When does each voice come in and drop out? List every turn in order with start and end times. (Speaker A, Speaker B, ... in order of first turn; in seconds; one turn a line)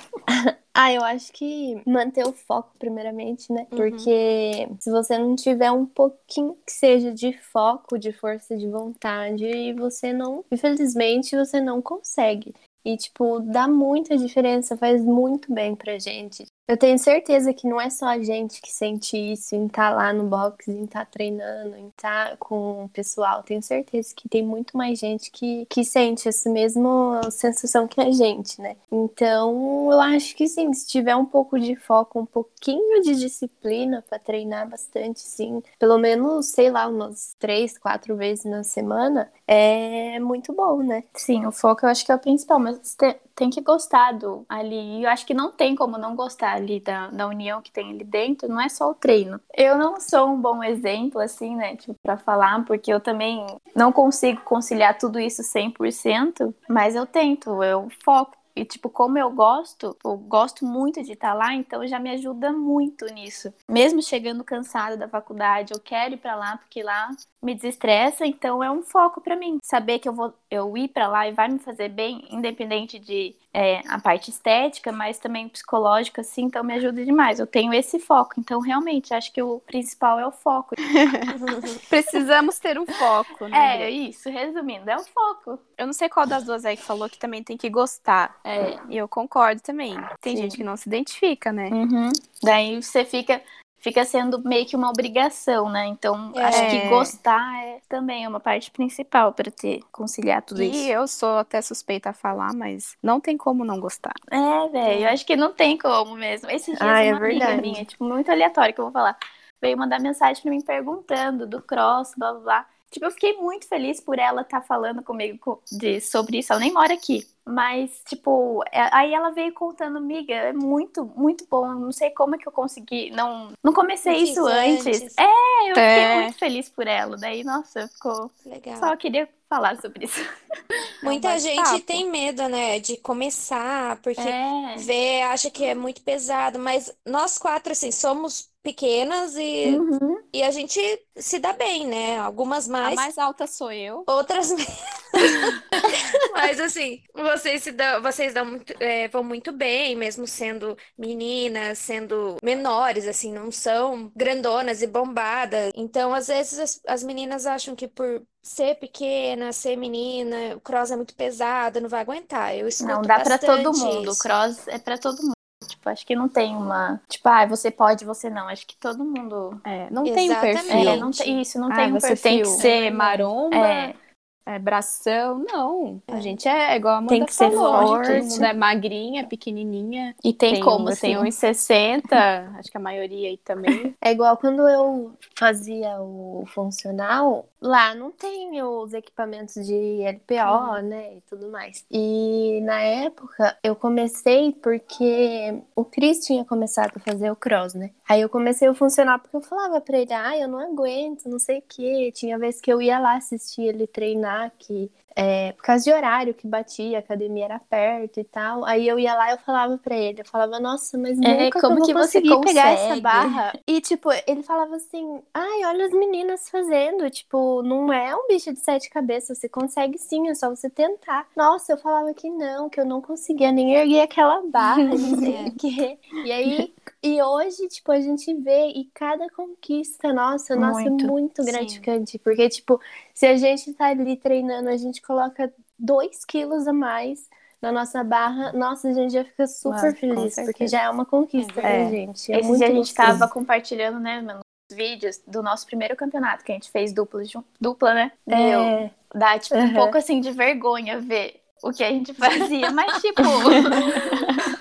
Speaker A: 0.3-41.1
Speaker B: 3.7-4.1
Speaker C: 41.2-80.7
Speaker D: 80.9-83.9
Speaker B: 81.5-81.8
Speaker C: 83.5-85.6
Speaker D: 85.8-91.8
Speaker C: 88.5-88.8
Speaker C: 90.2-90.6
Speaker C: 91.7-100.9
Speaker B: 96.4-96.8
Speaker D: 96.4-97.1
Speaker D: 100.5-104.2
Speaker C: 104.3-130.2
Speaker B: 104.8-105.2
Speaker A: 106.8-107.9
Speaker B: 124.0-125.2
Speaker D: 125.8-126.3
Speaker B: 128.4-128.9
Speaker B: 131.0-143.1
Speaker D: 131.1-132.0
Speaker C: 134.2-134.9
Speaker C: 139.7-140.2
Speaker D: 142.8-144.1
Speaker B: 144.1-164.3
Speaker C: 162.8-169.6
Speaker D: 169.7-171.1
Speaker B: 170.0-171.4
Speaker C: 170.7-172.7
Speaker D: 171.7-173.9
Speaker C: 173.5-174.0
Speaker D: 174.5-183.9
Speaker B: 176.1-176.4
Speaker A: 177.1-178.5
Speaker C: 177.4-178.2
Speaker C: 180.2-181.3
Speaker A: 184.0-243.3
Speaker C: 211.2-213.5
Speaker C: 224.6-225.4
Speaker B: 225.2-225.6
Speaker C: 230.6-231.1
Speaker B: 231.4-231.8
Speaker C: 239.7-240.7
Speaker B: 241.4-241.8
Speaker D: 241.6-242.0
Speaker C: 242.3-254.5
Speaker A: 248.3-248.9
Speaker A: 249.5-249.9